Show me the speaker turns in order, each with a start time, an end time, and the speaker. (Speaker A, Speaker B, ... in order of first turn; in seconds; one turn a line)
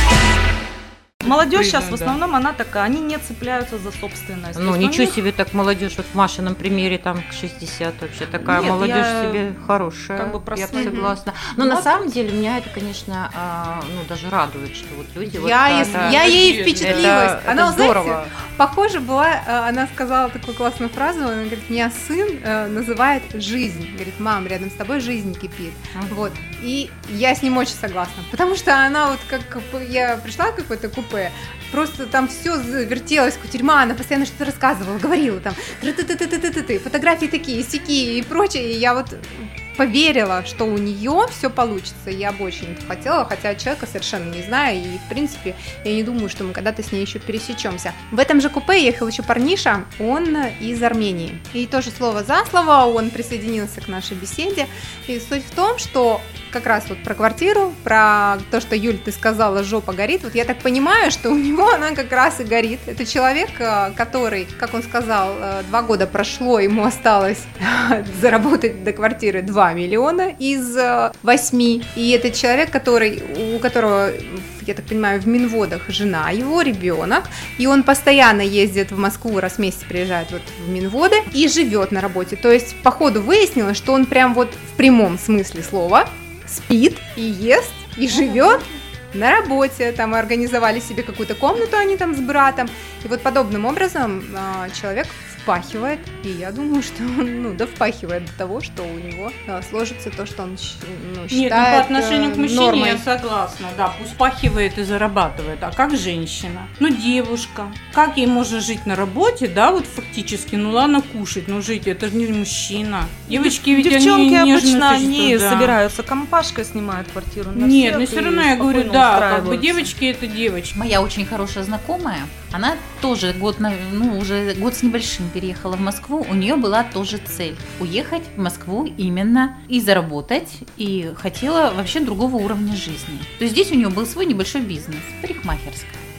Speaker A: 1.2-5.2
Speaker B: 1.2-2.2
Speaker C: 4.6-18.3
Speaker A: 8.4-9.6
Speaker A: 10.2-11.1
Speaker D: 10.8-11.1
Speaker D: 11.6-11.9
Speaker D: 15.2-103.0
Speaker B: 15.7-17.2
Speaker C: 25.9-26.4
Speaker B: 101.3-115.8
Speaker A: 113.3-119.9
Speaker B: 117.6-120.7
Speaker E: 120.7-136.0